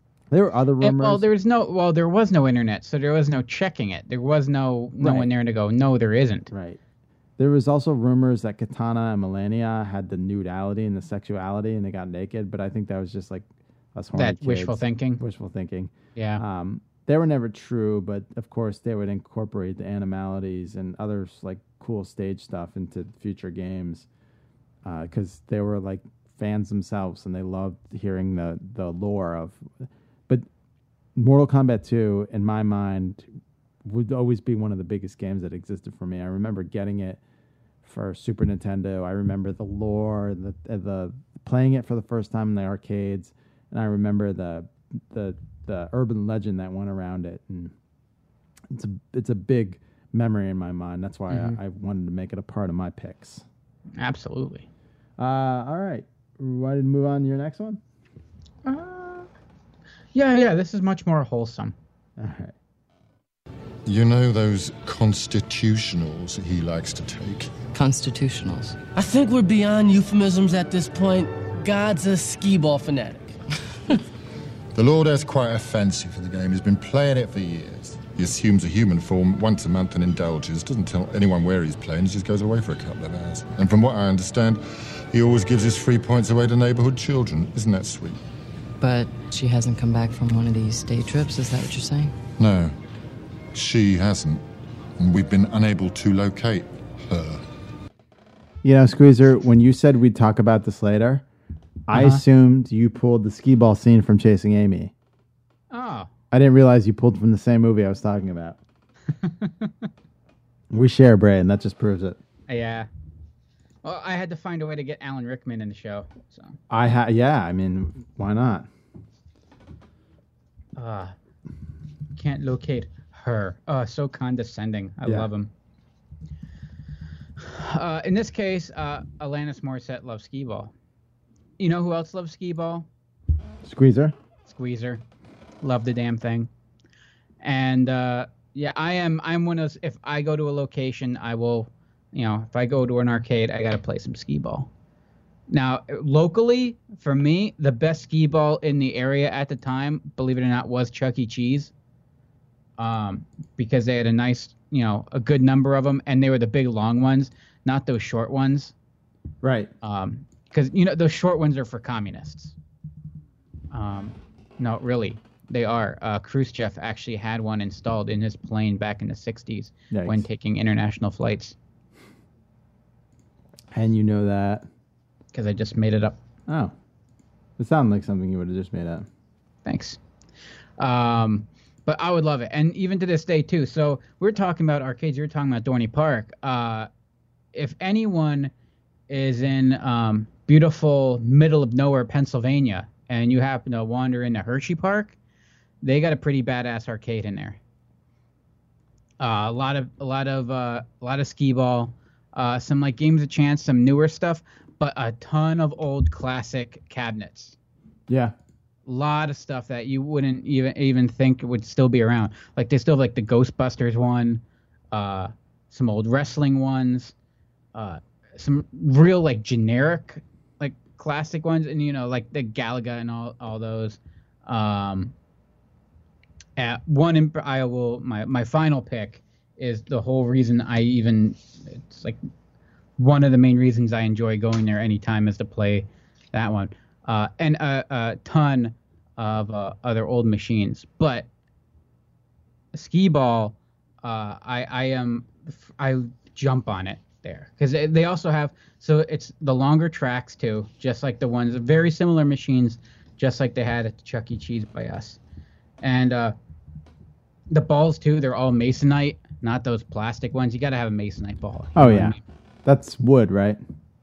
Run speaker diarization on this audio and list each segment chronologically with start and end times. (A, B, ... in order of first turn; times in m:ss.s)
0:00.3-0:01.2 A
0:00.8-0:06.5 B
0:05.0-0:05.3 A
0:06.5-0:06.8 A
0:07.4-0:24.1 A
0:14.2-0:15.2 B
0:16.2-0:16.4 B
0:24.8-0:30.4 A
0:31.2-0:33.2 A
0:33.8-0:37.2 A
0:37.8-0:47.7 A
0:48.7-0:53.4 A
0:51.3-0:51.6 B
0:54.0-0:54.7 B
0:55.2-0:57.8 A
0:58.6-0:59.3 B
1:00.1-1:01.8 B
1:02.2-1:02.6 A
1:03.8-1:07.6 C
1:07.7-1:08.8 D
1:08.9-1:13.3 E
1:14.7-1:28.2 C
1:28.8-1:32.1 D
1:32.4-1:32.8 C
1:33.5-1:34.4 C
1:35.0-1:37.4 C
1:38.6-1:41.2 A
1:41.9-1:44.9 A
1:41.9-1:42.2 B
1:45.7-1:46.1 B
1:46.3-1:48.6 A
1:49.2-1:49.9 B
1:50.7-1:52.2 A
1:52.5-1:52.9 B
1:53.8-1:56.6 B
1:56.7-1:58.7 A
2:00.8-2:01.1 B
2:02.2-2:05.5 B
2:07.4-2:10.7 B
2:11.6-2:12.9 B
2:13.6-2:14.2 A
2:14.5-2:15.0 B
2:15.6-2:16.5 B
2:17.4-2:24.7 B
2:25.5-2:31.7 B
2:32.8-2:38.7 B
2:39.4-2:39.7 A
2:39.8-2:42.6 B
2:43.7-2:51.6 B
2:49.9-2:50.2 A
2:53.7-2:54.7 A
2:55.3-2:56.2 B
2:56.5-2:56.7 A
2:57.6-2:59.1 A
2:59.6-3:00.0 B
3:00.8-3:06.9 B
3:07.5-3:08.5 B
3:09.1-3:15.2 B
3:15.8-3:17.6 B
3:19.2-3:27.6 B
3:28.1-3:28.3 A
3:28.9-3:34.4 B
3:34.9-3:37.1 B
3:37.7-3:45.1 B
3:46.6-3:52.2 B
3:53.0-4:01.3 B
4:02.7-4:15.2 B
4:15.8-4:16.4 B
4:17.5-4:22.2 B
4:21.8-4:23.6 A